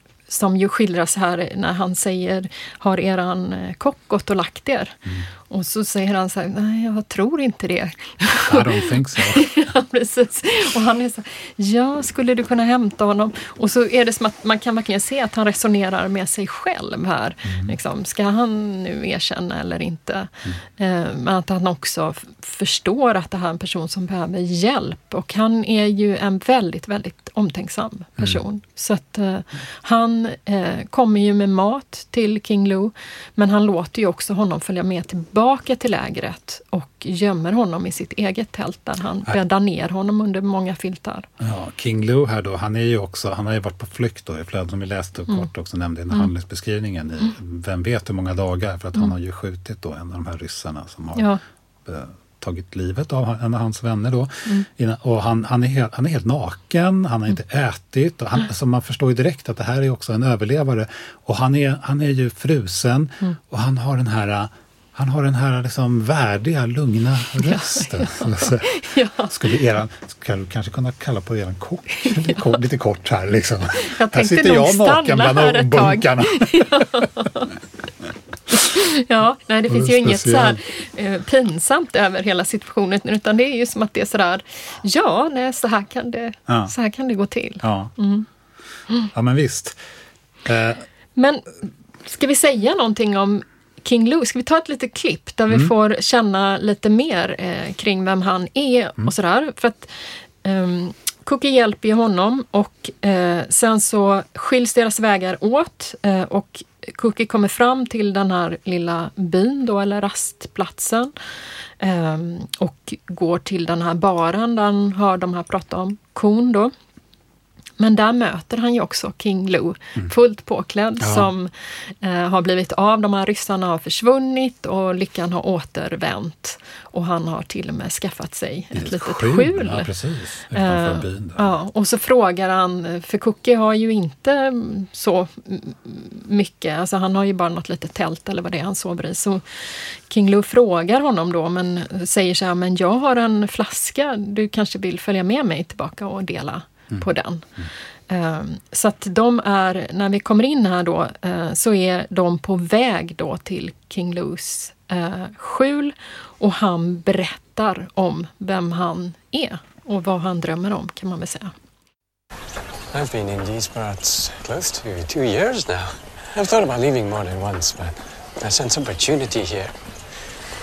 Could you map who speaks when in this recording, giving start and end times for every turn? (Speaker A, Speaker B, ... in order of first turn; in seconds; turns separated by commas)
Speaker A: 0.3-5.0, Speaker A: 5.5-41.3, Speaker B: 8.4-9.6, Speaker B: 17.4-17.7, Speaker B: 41.4-51.3, Speaker B: 51.9-77.0, Speaker A: 67.4-69.4, Speaker A: 72.0-72.6, Speaker A: 73.8-77.5, Speaker A: 78.5-88.2, Speaker B: 79.7-80.6, Speaker B: 86.5-86.7, Speaker B: 87.6-87.9, Speaker B: 89.1-89.8, Speaker B: 90.4-90.8, Speaker A: 91.2-111.1, Speaker A: 111.8-116.7, Speaker A: 117.8-129.9, Speaker B: 121.0-121.3, Speaker B: 128.7-131.5, Speaker A: 130.5-147.4, Speaker A: 148.1-161.5, Speaker C: 162.9-169.7